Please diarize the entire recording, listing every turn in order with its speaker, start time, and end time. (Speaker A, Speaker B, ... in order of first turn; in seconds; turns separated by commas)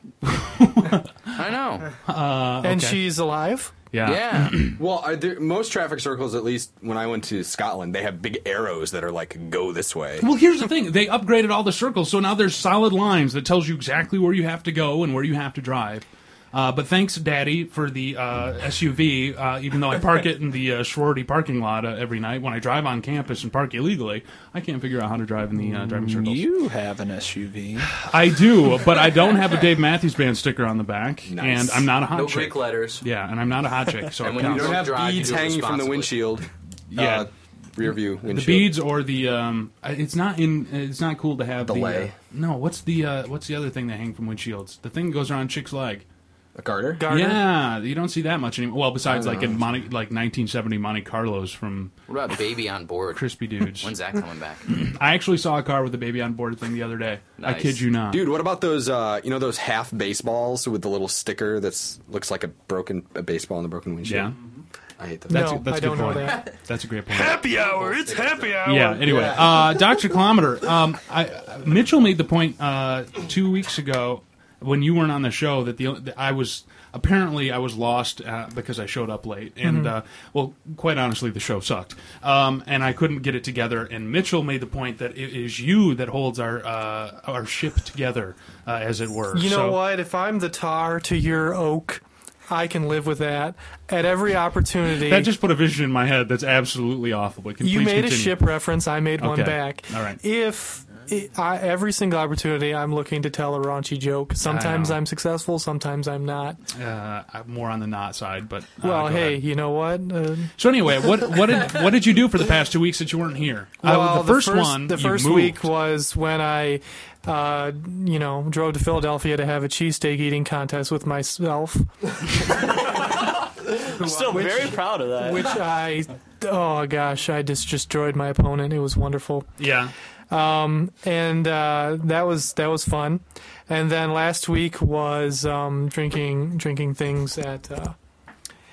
Speaker A: 0.2-1.4, Speaker B: 1.3-1.9, Speaker A: 2.0-3.0, Speaker C: 2.6-3.7, Speaker A: 3.9-4.8, Speaker B: 4.0-4.6, Speaker D: 4.8-10.3, Speaker A: 10.2-26.4, Speaker E: 25.6-27.9, Speaker A: 27.9-34.8, Speaker D: 31.2-31.9, Speaker B: 32.1-33.0, Speaker B: 34.2-36.1, Speaker D: 34.3-38.8, Speaker A: 36.9-37.3, Speaker A: 38.2-46.0, Speaker D: 41.6-42.1, Speaker D: 46.5-47.0, Speaker C: 47.0-47.5, Speaker A: 47.1-51.9, Speaker D: 49.0-49.6, Speaker B: 52.1-54.7, Speaker A: 53.1-53.9, Speaker A: 54.7-58.2, Speaker B: 57.4-57.8, Speaker D: 58.1-64.4, Speaker A: 64.0-64.3, Speaker D: 65.0-65.6, Speaker C: 65.3-66.5, Speaker A: 65.3-67.4, Speaker C: 67.1-69.4, Speaker D: 67.4-69.8, Speaker A: 68.6-89.8, Speaker C: 79.6-79.9, Speaker C: 89.3-95.3, Speaker A: 95.0-98.5, Speaker C: 97.6-106.6, Speaker A: 99.2-100.2, Speaker A: 104.4-105.0, Speaker A: 106.7-109.4, Speaker C: 108.8-110.5, Speaker A: 110.6-115.7, Speaker C: 113.8-121.9, Speaker C: 123.8-129.5, Speaker E: 124.0-125.5, Speaker A: 129.6-129.9, Speaker C: 130.3-137.9